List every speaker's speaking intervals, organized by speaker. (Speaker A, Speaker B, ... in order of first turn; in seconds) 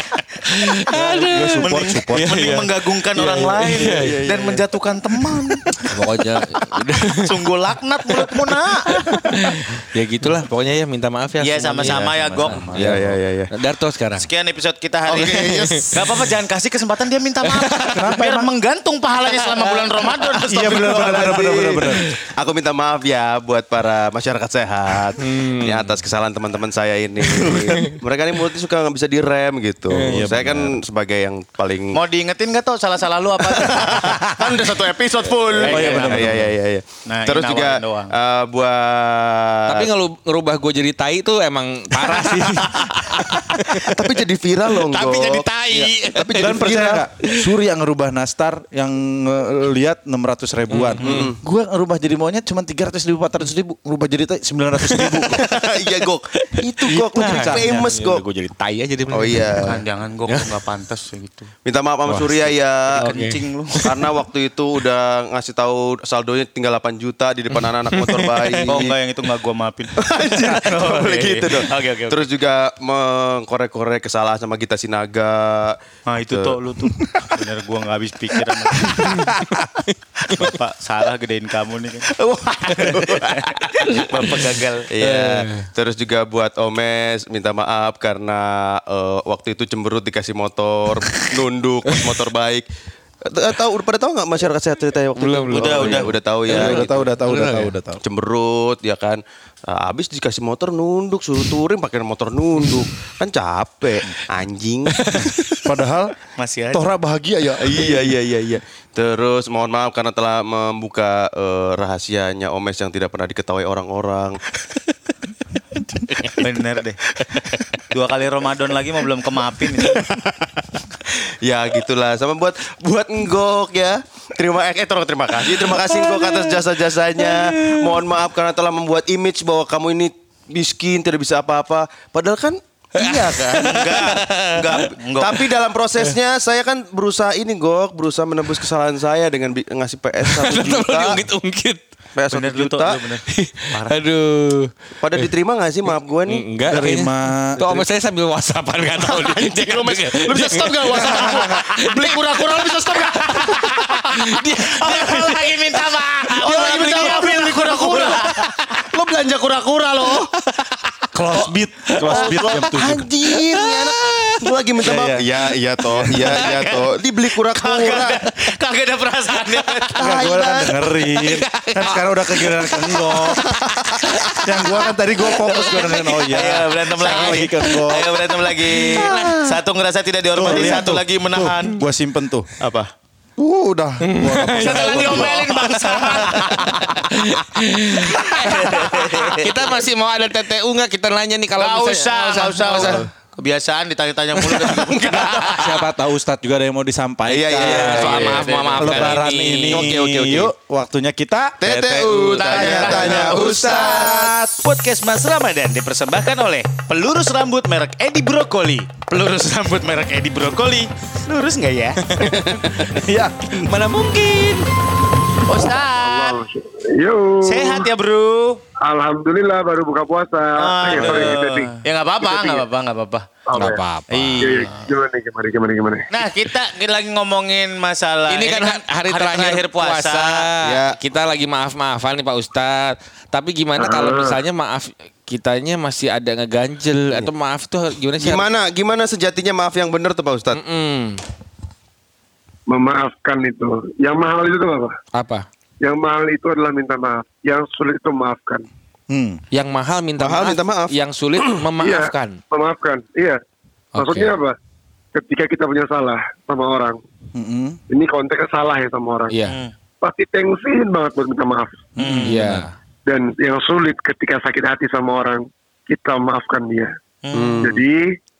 Speaker A: 0.5-4.2, 5.8-7.3, 9.0-14.2, 15.6-15.9, 17.6-18.0, 25.2-25.9, 27.2-28.0, 29.9-30.4, 39.7-44.1, 44.8-47.5, 50.7-51.3, 54.9-55.6, 56.4-59.7, 63.0-64.2, 67.6-68.7, 80.3-80.5, 85.0-85.7, 95.2-97.7, 105.1-105.4, 125.8-126.5, 127.2-128.0, 133.1-134.6, 140.2-141.8, 143.3-145.3, 146.3-155.6, 156.3-158.4, 178.9-179.4, 184.0-193.0, 197.6-200.0, 201.9-203.3, 213.5-214.7, 223.5-224.6, 228.3-238.4, 240.5-241.2, 245.1-245.4, 249.5-252.4, 253.9-254.3, 259.3-259.6, 262.2-262.7
Speaker B: 0.9-2.5, 12.4-13.0, 17.9-18.5, 20.4-22.0, 30.1-30.8, 35.6-36.5, 42.1-42.9, 46.4-55.4, 56.8-57.9, 62.1-62.3, 77.0-77.4, 78.9-79.8, 95.8-98.0, 105.6-106.1, 106.7-108.1, 146.7-147.6, 150.9-151.7, 161.1-163.1, 164.8-165.3, 170.0-173.5, 174.4-178.3, 180.3-182.5, 183.4-186.6, 195.4-204.6, 212.8-213.8, 249.1-249.4, 257.3-257.8, 262.0-262.7
Speaker C: 1.6-5.7, 7.1-9.0, 11.4-12.7, 14.2-21.6, 31.9-34.2, 35.5-36.3, 37.1-38.1, 59.6-61.5, 63.0-63.8, 68.6-72.2, 76.1-79.2, 80.3-84.9, 95.5-96.1, 106.4-106.8, 116.3-117.0, 117.8-120.0, 132.9-135.4, 142.3-144.0, 150.9-158.8, 162.1-162.4, 166.1-170.3, 171.1-181.8, 184.6-187.1, 188.1-189.6, 191.6-195.8, 197.6-199.2, 202.4-212.4, 215.4-216.4, 217.4-218.6, 220.6-223.3, 224.1-224.8, 226.1-230.5, 259.4-259.7, 262.0-262.4, 267.2-267.7
Speaker D: 3.6-4.6, 12.7-13.5, 15.1-15.9, 20.4-32.0, 33.4-39.9, 43.9-46.7, 51.0-51.4, 55.2-58.2, 59.1-59.8, 61.6-63.1, 63.8-68.9, 70.0-75.8, 76.3-76.6, 82.1-84.3, 84.9-92.6, 93.2-97.1, 98.0-105.3, 107.6-114.4, 119.9-141.2, 142.1-143.0, 145.0-146.4, 147.6-147.8, 149.0-153.3, 156.4-160.3, 162.0-168.3, 169.9-170.8, 173.3-174.4, 178.9-179.4, 188.3-189.4, 192.7-193.1, 194.4-195.7, 197.2-198.5, 199.7-200.5, 201.6-204.3, 212.2-212.8, 230.6-230.9, 238.2-240.6, 250.2-251.6, 267.3-267.8
Speaker E: 215.7-217.9, 218.8-222.7, 223.5-223.8, 224.4-226.1, 233.8-234.4, 242.7-244.9, 245.8-248.6, 251.8-253.4, 253.9-254.5, 255.1-257.0, 257.9-259.3, 260.0-261.9, 263.1-266.9, 267.6-268.0